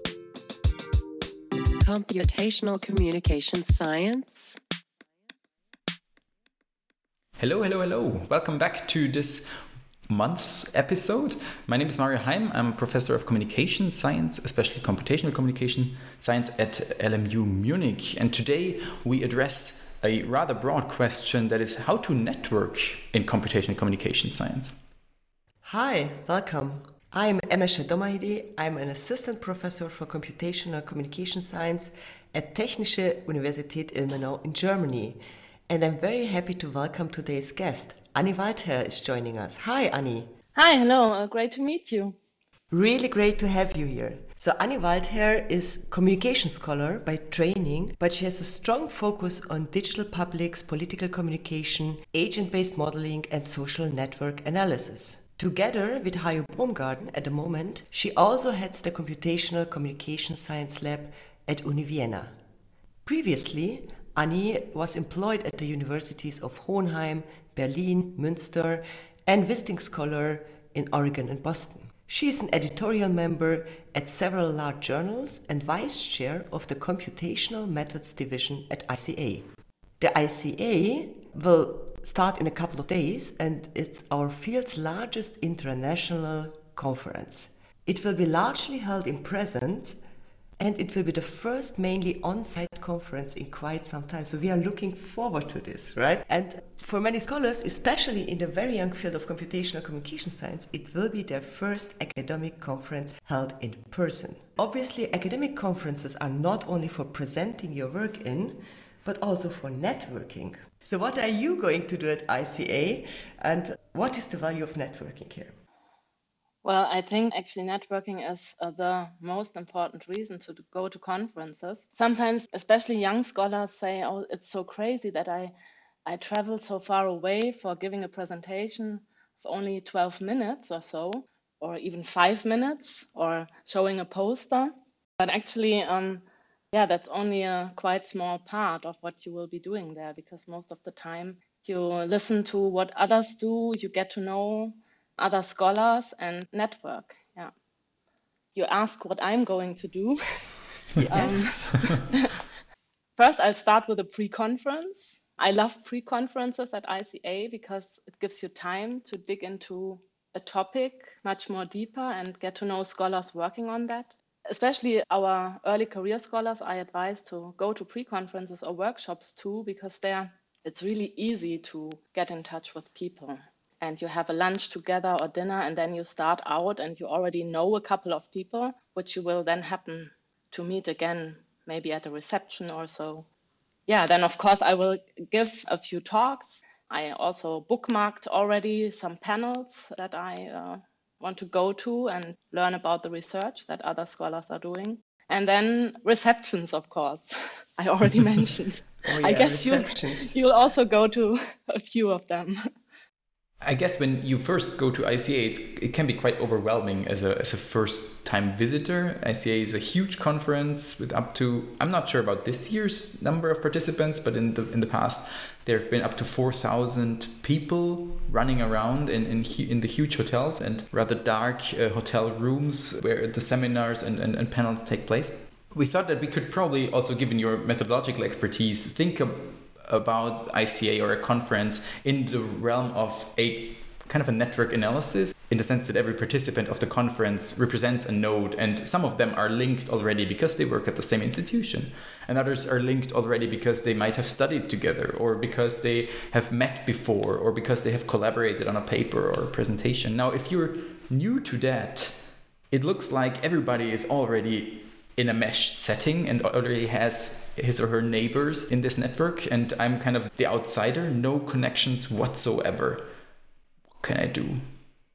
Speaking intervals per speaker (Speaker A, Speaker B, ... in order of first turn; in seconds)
Speaker A: 1.8-4.6
Speaker B: 7.4-24.8, 203.6-263.1, 264.0-264.6
Speaker C: 25.6-40.3, 42.7-62.4, 63.0-79.5, 80.0-90.0, 90.6-115.5, 151.0-152.0, 199.0-200.4
Speaker D: 40.5-42.2, 116.6-125.5, 126.0-147.5, 148.5-150.2, 151.1-152.4, 153.2-183.2, 183.9-202.7